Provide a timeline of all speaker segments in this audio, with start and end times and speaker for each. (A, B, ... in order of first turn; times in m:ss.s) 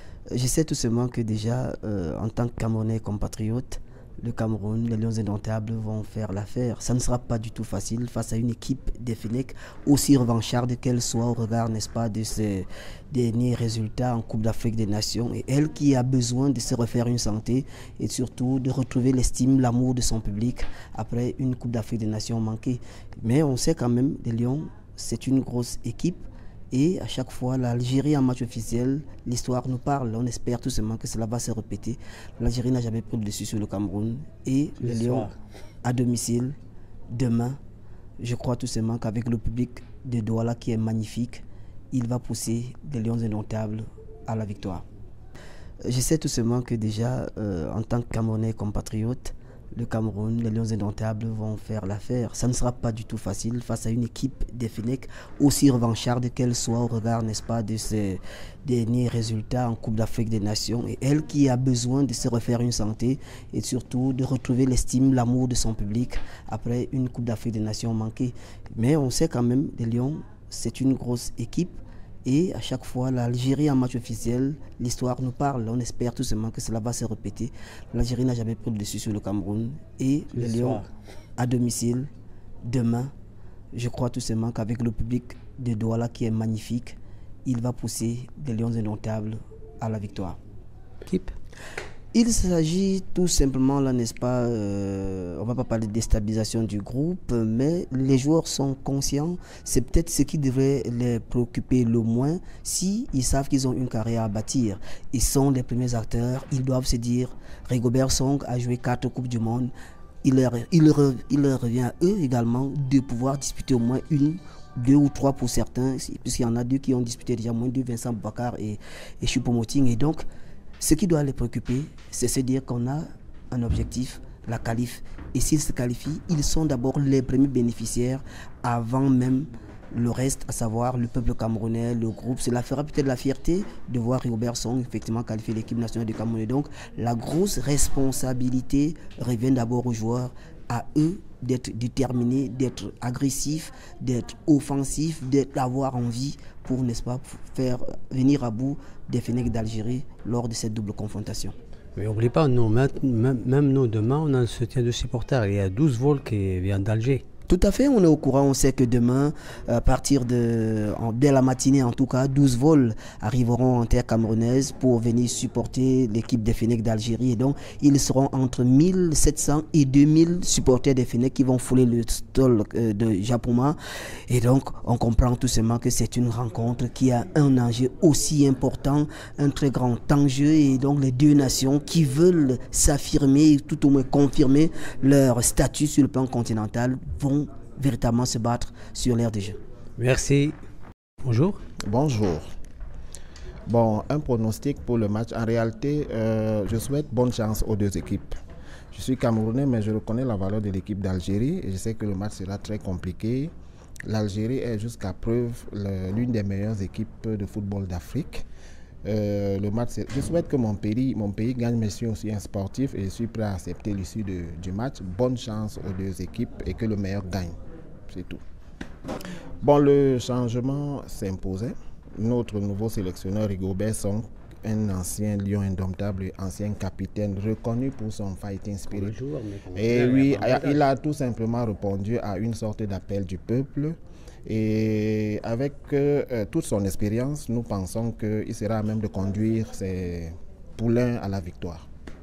0:00.3-0:36.6 A
0:34.8-0:35.4 B
0:37.1-0:37.6 A
0:38.2-0:44.9 A
0:45.8-1:20.9 A
1:20.3-1:20.9 B
1:21.4-1:22.1 A
1:22.6-1:23.1 A
1:23.7-1:30.4 A
1:31.0-1:31.4 B
1:32.1-2:00.2 A
2:00.8-2:31.6 A
2:32.0-2:37.2 B
2:37.5-2:53.8 A
2:54.3-3:09.6 A
3:10.0-3:10.6 B
3:11.2-3:11.6 B
3:11.8-3:12.4 C
3:13.7-3:18.3 C
3:18.9-3:23.5 C
3:24.1-3:28.5 C
3:29.0-3:37.6 C
3:38.1-3:38.4 C
3:39.6-3:49.2 C
3:48.9-3:50.9 B
3:49.8-4:01.9 C